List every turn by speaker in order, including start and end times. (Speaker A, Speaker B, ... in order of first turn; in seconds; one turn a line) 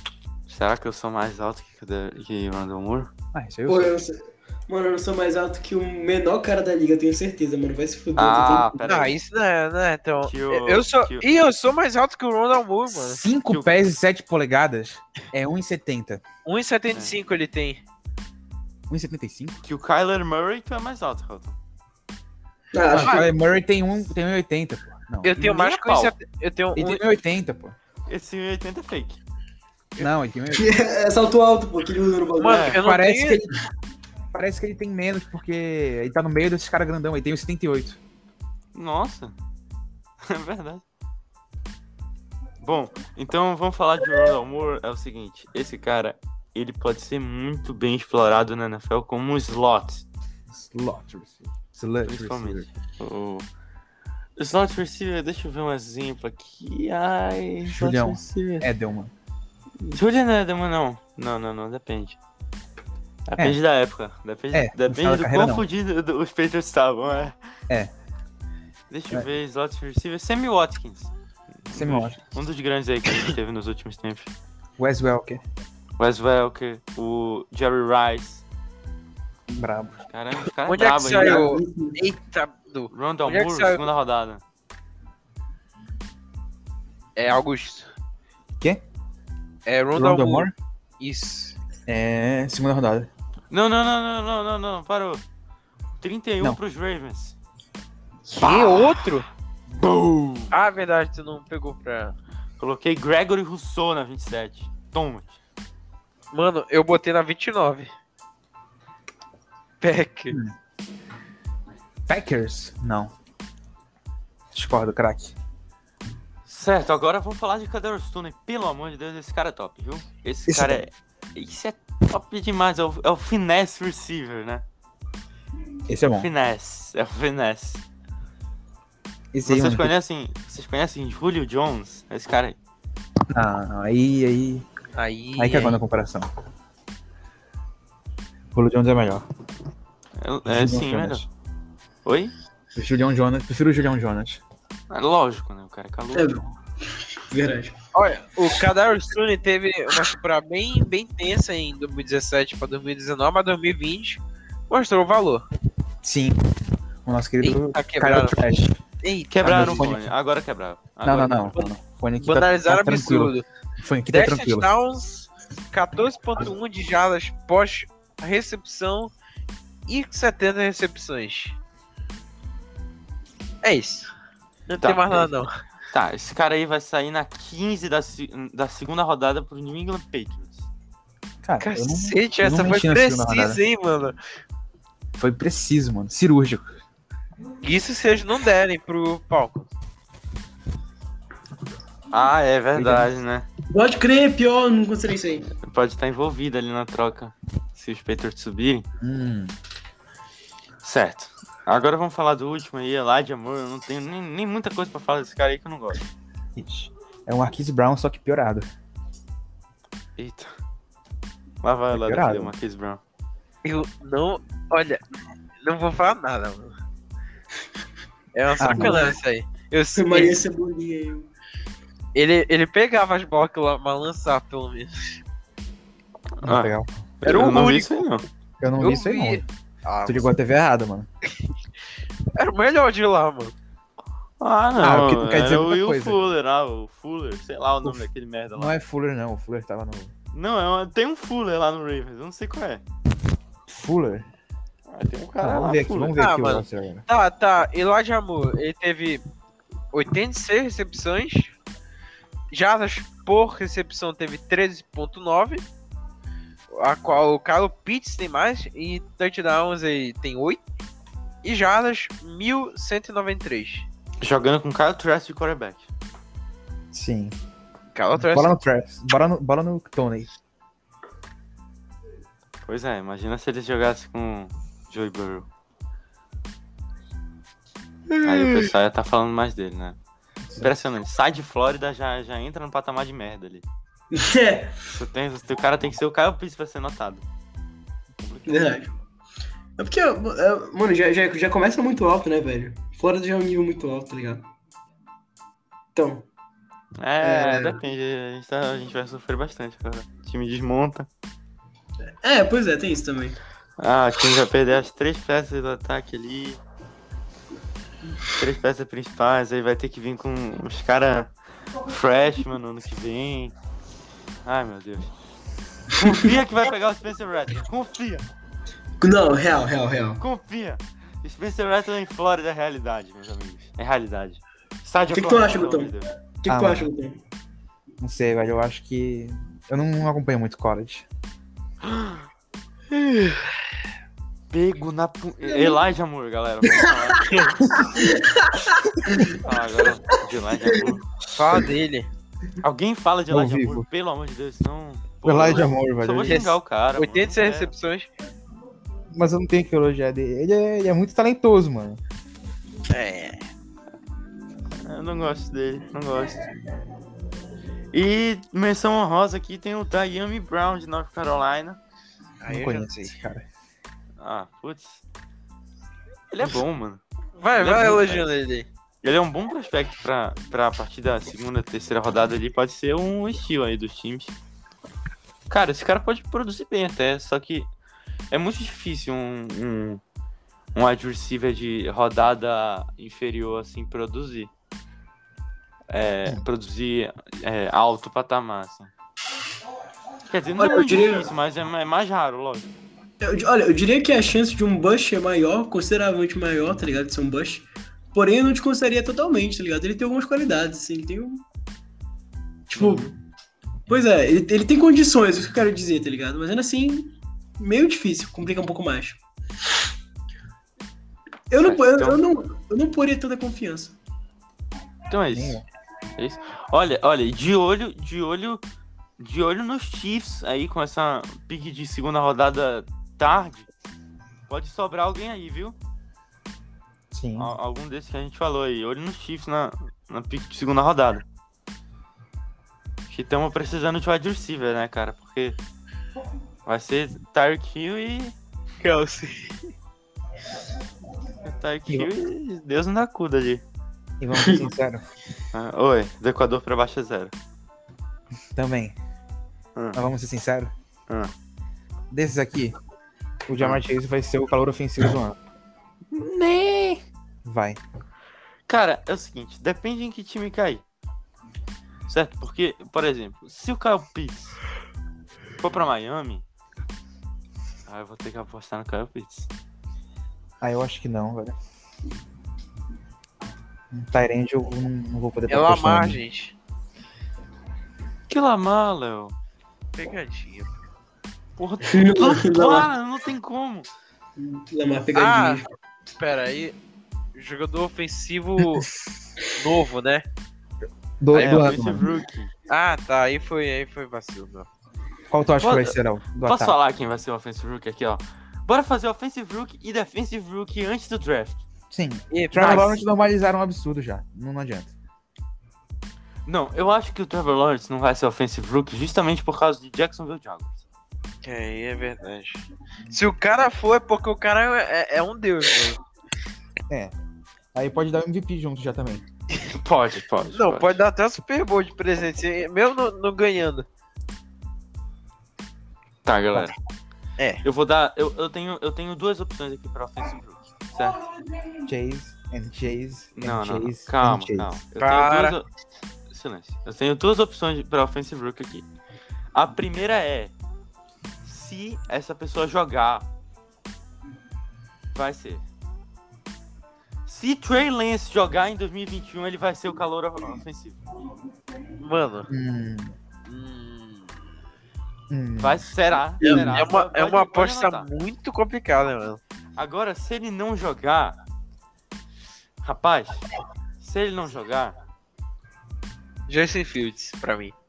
Speaker A: 0.5-3.1
Speaker B: 3.3-4.0
Speaker C: 3.7-9.0
Speaker A: 8.2-9.1
Speaker D: 8.9-13.2
Speaker A: 10.2-11.3
Speaker B: 12.9-16.2
Speaker A: 13.5-13.8
Speaker D: 16.4-17.8
Speaker B: 18.9-19.6
Speaker A: 19.6-21.6
Speaker C: 22.7-23.3
Speaker B: 22.9-25.4
Speaker D: 22.9-23.3
Speaker D: 25.2-27.0
Speaker A: 25.4-26.1
Speaker B: 26.8-27.8
Speaker A: 28.1-29.2
Speaker B: 30.0-30.7
Speaker C: 30.5-32.8
Speaker D: 32.4-33.4
Speaker A: 32.5-32.8
Speaker B: 32.8-33.5
Speaker B: 34.3-38.0
Speaker A: 38.8-39.4
Speaker A: 40.2-40.8
Speaker A: 42.6-50.0
Speaker B: 50.5-52.7
Speaker A: 52.1-53.5
Speaker A: 54.4-58.7
Speaker B: 57.7-59.1
Speaker A: 59.8-62.2
Speaker A: 63.3-67.4
Speaker B: 64.5-65.7
Speaker A: 68.9-71.1
Speaker A: 71.7-74.3
Speaker B: 71.7-72.2
Speaker B: 74.8-75.4
Speaker A: 76.0-78.4
Speaker B: 79.5-80.0
Speaker A: 80.1-81.5
Speaker D: 80.7-83.9
Speaker C: 81.1-82.0
Speaker A: 82.9-84.4
Speaker D: 87.2-87.9
Speaker D: 89.7-91.6
Speaker B: 90.0-90.5
Speaker B: 91.9-93.1
Speaker A: 93.5-95.2
Speaker A: 96.0-97.4
Speaker D: 98.3-99.3
Speaker A: 98.4-99.1
Speaker A: 99.8-100.5
Speaker D: 100.5-102.2
Speaker A: 102.6-105.4
Speaker D: 106.3-107.9
Speaker D: 109.8-110.4
Speaker B: 112.1-113.1
Speaker B: 114.5-115.3
Speaker A: 116.5-124.6
Speaker B: 120.5-120.8
Speaker B: 125.9-126.3
Speaker A: 126.1-127.8
Speaker B: 129.3-129.9
Speaker A: 129.4-132.6
Speaker B: 133.3-134.7
Speaker D: 135.0-135.8
Speaker B: 135.4-136.3
Speaker B: 138.5-139.2
Speaker A: 140.2-141.2
Speaker B: 140.5-141.3
Speaker A: 142.1-142.3
Speaker B: 142.8-144.4
Speaker A: 144.9-146.4
Speaker C: 146.1-146.4
Speaker C: 147.3-147.8
Speaker D: 147.9-155.4
Speaker B: 156.0-156.4
Speaker B: 157.1-158.8
Speaker D: 157.4-159.9
Speaker A: 159.3-161.6
Speaker B: 159.4-160.1
Speaker B: 161.0-164.7
Speaker D: 162.2-163.5
Speaker D: 164.1-169.1
Speaker D: 169.9-171.6
Speaker D: 173.6-174.1
Speaker D: 174.7-175.5
Speaker A: 174.8-175.3
Speaker A: 175.9-180.7
Speaker B: 181.4-183.6
Speaker D: 181.6-184.2
Speaker B: 185.2-186.8
Speaker D: 187.6-189.7
Speaker A: 192.1-193.5
Speaker B: 192.8-193.1
Speaker C: 193.7-195.5
Speaker A: 195.6-198.8
Speaker B: 199.0-199.5
Speaker A: 200.8-206.0
Speaker B: 206.6-208.7
Speaker A: 210.2-210.6
Speaker A: 211.6-213.0
Speaker B: 211.9-212.5
Speaker D: 213.6-215.0
Speaker D: 215.6-216.7
Speaker D: 218.3-220.4
Speaker B: 218.6-219.1
Speaker C: 218.7-219.2
Speaker C: 220.0-221.3
Speaker D: 222.2-225.2
Speaker A: 226.4-228.3
Speaker B: 226.4-227.4
Speaker D: 227.2-228.0
Speaker B: 228.6-229.4
Speaker D: 228.8-230.3
Speaker B: 230.1-231.1
Speaker D: 232.3-233.6
Speaker A: 234.4-238.8
Speaker B: 234.8-236.2
Speaker B: 238.6-240.1
Speaker A: 240.3-242.8
Speaker B: 243.7-244.3
Speaker A: 244.9-246.2
Speaker B: 245.4-247.1
Speaker D: 246.2-249.2
Speaker D: 249.9-251.5
Speaker D: 252.5-255.7
Speaker D: 256.7-260.6
Speaker D: 261.4-263.9
Speaker A: 264.2-265.9
Speaker B: 266.9-267.4
Speaker D: 267.9-268.6
Speaker B: 268.1-270.3
Speaker A: 272.6-275.5
Speaker C: 278.1-278.6
Speaker A: 278.2-280.0
Speaker B: 280.5-280.7
Speaker A: 280.6-283.6
Speaker C: 284.1-284.8
Speaker A: 284.9-287.2
Speaker A: 288.2-288.8
Speaker C: 288.5-288.9
Speaker C: 289.8-294.5
Speaker C: 295.9-296.3
Speaker A: 297.0-301.1
Speaker C: 297.2-297.8
Speaker C: 302.2-303.4
Speaker A: 303.8-306.6
Speaker A: 308.2-313.6
Speaker A: 314.4-315.1
Speaker A: 315.9-318.3
Speaker C: 316.0-316.4
Speaker C: 319.0-320.2
Speaker A: 320.2-326.1
Speaker C: 325.1-327.2
Speaker B: 326.5-326.9
Speaker B: 328.0-331.1
Speaker A: 331.8-332.3
Speaker A: 334.5-337.6
Speaker C: 335.5-335.8
Speaker C: 337.7-339.4
Speaker A: 339.3-341.1
Speaker D: 341.4-342.1
Speaker A: 342.6-347.7
Speaker B: 343.3-343.9
Speaker B: 345.2-346.4
Speaker D: 346.3-348.1
Speaker B: 349.1-352.0
Speaker D: 352.9-353.4
Speaker A: 354.8-356.4
Speaker A: 357.9-361.8
Speaker D: 362.4-363.1
Speaker B: 362.5-363.5
Speaker A: 364.2-365.0
Speaker A: 366.3-367.0
Speaker D: 367.4-368.7
Speaker A: 367.6-368.3
Speaker A: 369.0-374.4
Speaker A: 375.5-377.7
Speaker A: 378.3-380.0
Speaker A: 380.8-384.5
Speaker A: 385.9-388.9
Speaker A: 390.3-392.7
Speaker C: 390.6-391.3
Speaker C: 393.2-401.4
Speaker C: 402.7-403.1
Speaker A: 402.8-403.1
Speaker C: 403.9-409.2
Speaker C: 411.5-414.0
Speaker A: 411.6-412.2
Speaker A: 415.1-415.6
Speaker B: 415.3-415.6
Speaker A: 416.2-418.6
Speaker A: 419.2-423.7
Speaker A: 424.5-425.8
Speaker B: 427.1-427.5
Speaker A: 427.4-431.2
Speaker A: 433.1-435.6
Speaker A: 436.7-438.4
Speaker D: 438.8-439.6
Speaker A: 441.4-443.6
Speaker B: 444.2-445.0
Speaker C: 444.4-444.6
Speaker A: 445.5-447.3
Speaker B: 448.5-449.0
Speaker A: 449.8-450.0
Speaker B: 449.9-450.7
Speaker B: 452.1-452.8
Speaker B: 453.5-455.4
Speaker A: 456.1-457.0
Speaker B: 457.4-457.8
Speaker A: 458.7-460.9
Speaker A: 462.1-464.6
Speaker A: 465.6-466.4
Speaker A: 467.9-469.5
Speaker B: 470.6-471.6
Speaker B: 473.9-476.2
Speaker D: 475.5-476.6
Speaker A: 478.3-479.4
Speaker D: 480.0-480.7
Speaker A: 481.6-483.9
Speaker C: 481.9-482.9
Speaker C: 484.4-485.6
Speaker D: 485.1-485.6
Speaker D: 486.2-486.8
Speaker D: 487.4-488.9
Speaker D: 489.5-490.2
Speaker B: 491.2-492.1
Speaker A: 491.3-492.5
Speaker D: 491.4-491.7
Speaker D: 492.7-494.7
Speaker B: 495.3-496.8
Speaker A: 495.6-501.6
Speaker B: 501.9-504.9
Speaker D: 502.3-503.0
Speaker A: 502.6-503.0
Speaker A: 506.5-510.9
Speaker D: 511.4-516.0
Speaker B: 517.7-519.2
Speaker A: 519.7-521.0
Speaker D: 520.5-523.9
Speaker A: 526.2-526.8
Speaker D: 527.4-527.6
Speaker A: 527.6-531.2
Speaker B: 531.9-534.7
Speaker A: 533.4-535.7
Speaker D: 535.0-535.6
Speaker A: 536.3-538.9
Speaker A: 539.5-540.5
Speaker A: 541.4-543.3
Speaker A: 545.1-545.6
Speaker A: 547.3-551.0
Speaker D: 552.0-552.5
Speaker B: 552.5-553.1
Speaker D: 553.5-554.3
Speaker B: 555.3-555.8
Speaker A: 555.6-558.1
Speaker C: 556.4-556.8
Speaker D: 556.4-559.4
Speaker A: 559.8-561.4
Speaker A: 562.8-563.5
Speaker A: 564.0-565.0
Speaker D: 566.5-567.7